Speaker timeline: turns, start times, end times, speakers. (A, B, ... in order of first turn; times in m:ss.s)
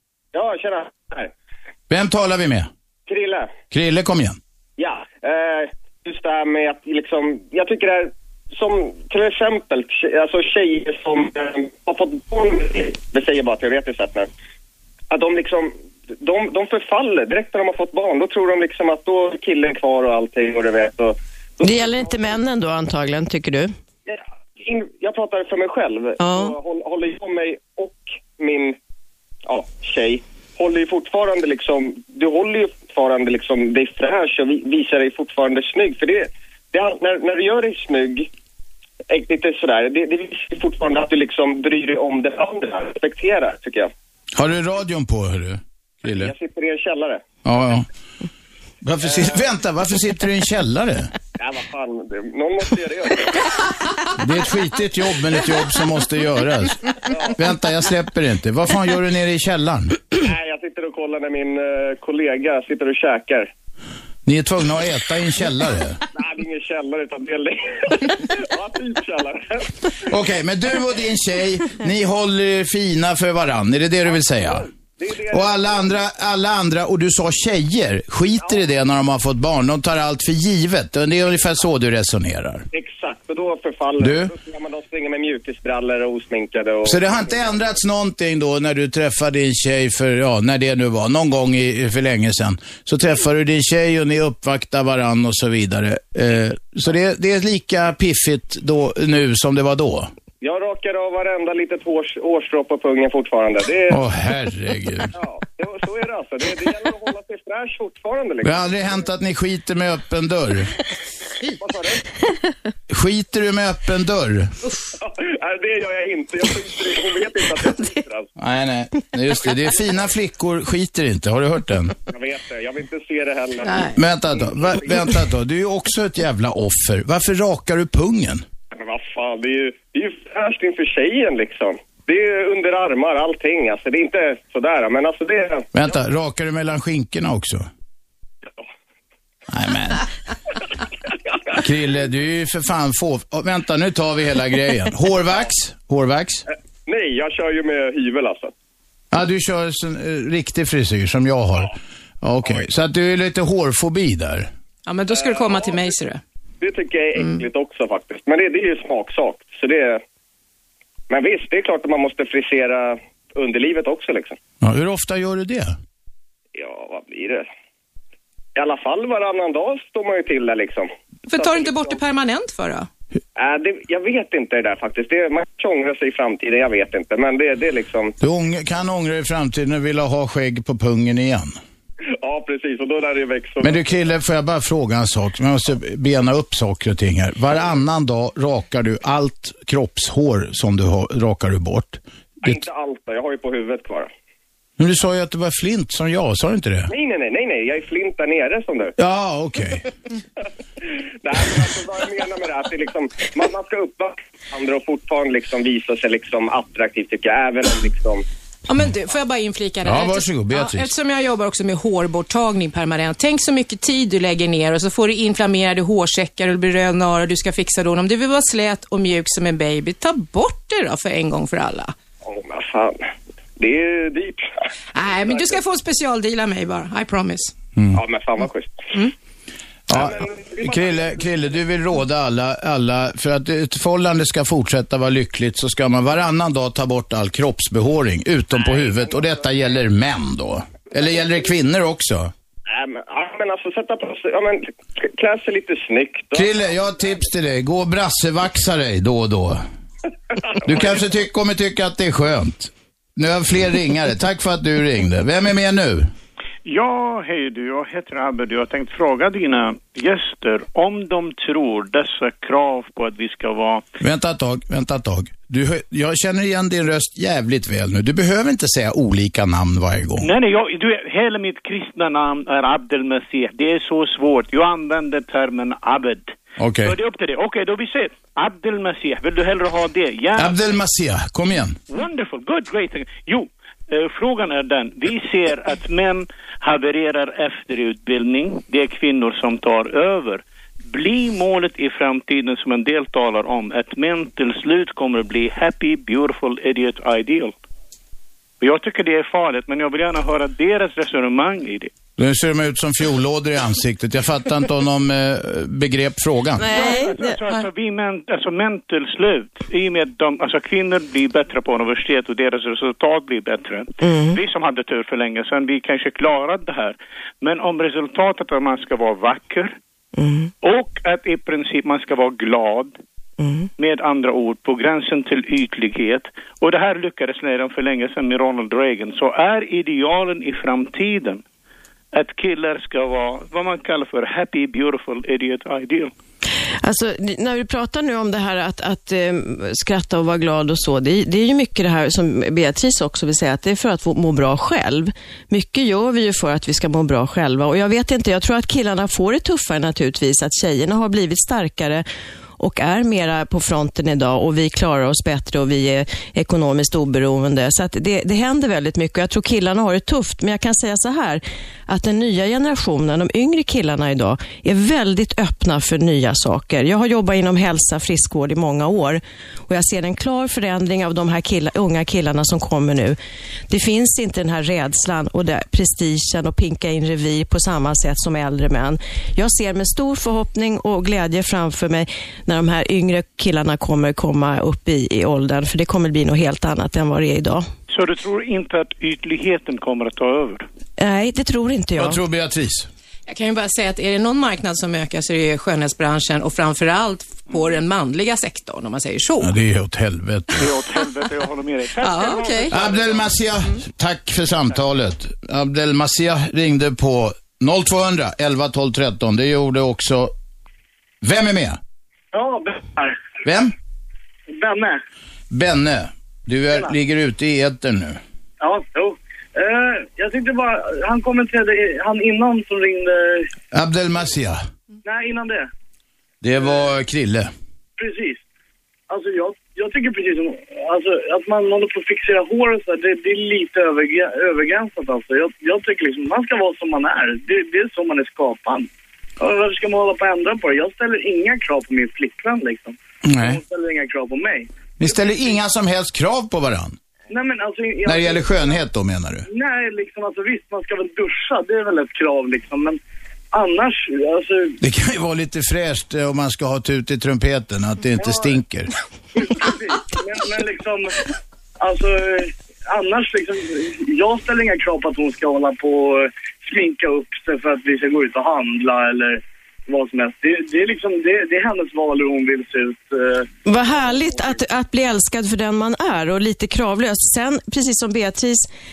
0:00.3-0:01.3 A
0:01.9-0:02.7 B
0:03.1-0:03.5 A
0:03.7-0:04.4 B
0:04.8-0:14.3 A
0:15.1-0:21.9 A
0:21.6-0:23.7 C
0:24.0-0:28.8 A
0:26.2-0:26.6 C
0:29.5-0:38.3 A
0:39.1-0:43.9 A
0:44.4-0:46.3 B
0:46.0-0:47.2 A
0:47.4-0:47.9 B
0:48.8-0:51.1 B
0:49.0-0:49.5 A
0:51.4-0:53.4 A
0:54.2-1:00.0 B
1:00.2-1:03.5 A
1:04.2-1:06.0 B
1:06.1-1:09.7 A
1:10.1-1:14.6 B
1:14.0-1:16.1 A
1:15.3-1:22.6 B
1:22.7-1:27.8 A
1:24.0-1:24.3 B
1:26.8-1:40.1 B
1:40.4-1:44.0 A
1:43.9-1:45.1 B
1:45.1-1:49.0 A
1:48.4-1:50.7 B
1:51.6-1:52.0 A
1:52.9-1:54.5 B
1:54.6-1:54.9 D
1:55.0-1:58.3 A
1:58.4-2:01.9 B
2:02.1-2:04.9 A
2:03.6-2:04.0 D
2:03.9-2:08.4 B
2:08.7-2:15.8 A
2:15.7-2:17.7 B
2:19.5-2:20.0 B
2:21.6-2:26.4 B
2:26.9-2:28.5 A
2:29.1-2:31.7 B
2:32.2-2:34.5 B
2:34.8-2:36.2 D
2:35.1-2:35.9 A
2:36.6-2:40.0 A
2:37.1-2:37.4 D
2:41.1-2:44.4 A
2:44.6-2:45.7 B
2:46.5-2:47.5 A
2:48.6-2:52.0 A
2:51.3-2:52.9 D
2:53.4-2:58.1 A
2:58.2-3:01.5 B
3:02.2-3:03.8 A
3:03.6-3:12.6 B
3:12.4-3:14.1 A
3:14.8-3:16.9 B
3:16.9-3:18.9 A
3:19.0-3:19.8 B
3:21.2-3:28.2 A
3:28.7-3:41.9 D
3:29.8-3:30.9 B
3:42.2-3:43.0 A
3:43.6-3:44.5 A
3:44.9-3:47.5 D
3:45.2-3:45.6 A
3:47.9-3:49.0 A
3:49.9-3:51.4 A
3:49.9-4:02.3 B
3:58.6-3:59.2 A
4:02.7-4:06.6 A
4:06.3-4:09.6 B
4:10.6-4:16.1 B
4:16.6-4:23.8 E
4:24.0-4:30.3 B
4:30.2-4:40.8 E
4:36.6-4:36.9 B
4:40.4-4:41.8 B
4:41.9-4:57.5 E
4:58.6-5:01.9 E
5:02.2-5:06.8 B
5:06.6-5:07.6 C
5:06.6-5:19.8 E
5:14.0-5:14.4 C
5:20.2-5:20.5 C
5:20.6-5:23.0 E
5:23.4-5:23.7 C
5:23.8-5:31.4 E
5:32.1-5:36.1 E
5:36.8-5:52.0 C
5:52.6-6:13.2 C
6:13.7-6:27.6 C
6:27.9-6:30.6 E
6:31.0-6:32.2 C
6:32.0-6:32.9 B
6:33.3-6:39.5 D
6:39.4-6:40.6 B
6:40.6-6:43.5 E
6:42.0-6:42.8 D
6:42.7-6:50.3 B
6:51.2-6:51.8 B
6:52.3-6:53.2 F
6:53.4-6:53.7 B
6:54.5-6:55.0 F
6:55.5-6:58.2 B
6:58.6-7:03.5 F
7:03.7-7:04.6 B
7:05.0-7:05.7 F
7:06.4-7:07.5 B
7:08.0-7:08.4 F
7:09.1-7:25.5 F
7:23.2-7:23.6 B
7:25.0-7:27.0 B
7:27.3-7:28.8 F
7:28.0-7:29.4 B
7:29.4-7:33.0 F
7:33.5-7:34.8 F
7:34.8-7:38.9 B
7:38.2-7:38.6 F
7:39.3-7:41.2 F
7:41.8-7:53.5 F
7:53.6-7:58.7 C